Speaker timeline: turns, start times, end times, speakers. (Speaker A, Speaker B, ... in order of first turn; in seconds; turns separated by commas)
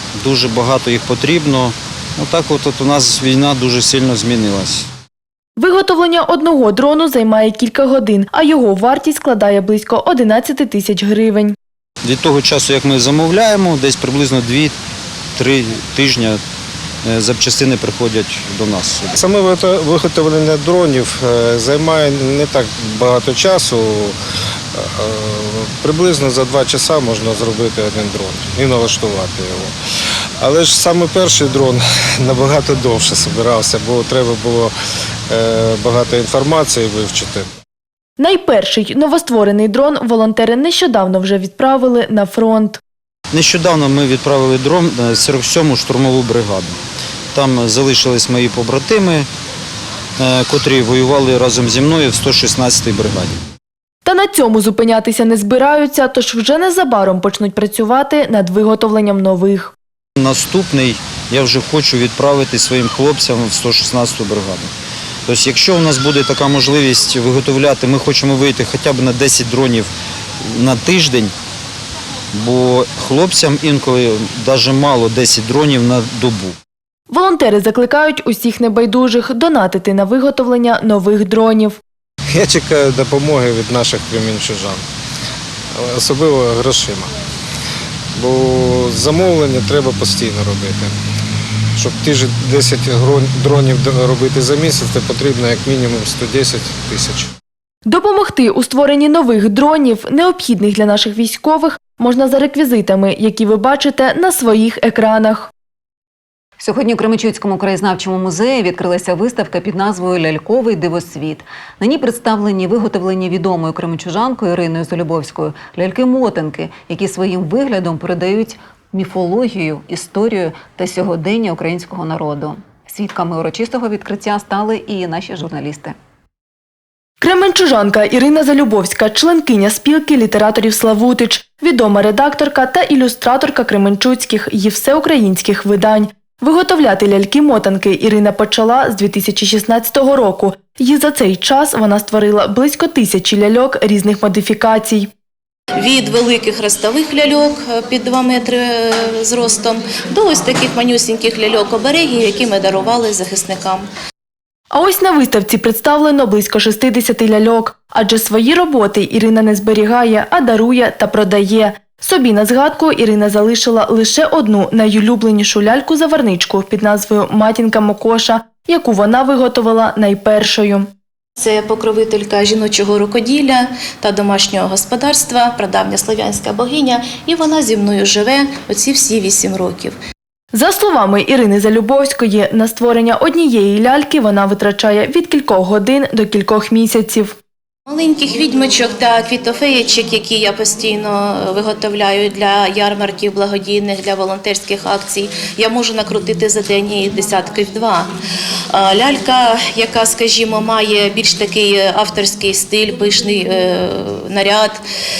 Speaker A: 0.2-4.9, Speaker B: 5.6-11.6, Speaker A: 12.0-14.7, Speaker A: 15.4-16.4, Speaker A: 17.1-19.2, Speaker C: 19.1-24.1, Speaker C: 24.7-29.7, Speaker C: 30.4-34.7, Speaker C: 35.3-37.5, Speaker B: 38.2-42.8, Speaker A: 43.3-46.8, Speaker A: 47.3-49.3, Speaker A: 50.2-53.4, Speaker B: 54.0-59.8, Speaker A: 60.2-64.7, Speaker A: 65.3-69.9, Speaker A: 70.4-71.3, Speaker A: 72.3-76.6, Speaker B: 77.1-81.8, Speaker C: 82.3-84.8, Speaker C: 85.7-87.1, Speaker C: 88.2-90.9, Speaker C: 91.8-97.3, Speaker B: 97.9-105.5, Speaker D: 106.6-126.0, Speaker B: 127.2-145.1, Speaker E: 145.8-153.9, Speaker B: 154.7-170.9, Speaker E: 171.4-180.0, Speaker B: 180.5-187.4, Speaker E: 187.9-198.1, Speaker E: 198.7-204.8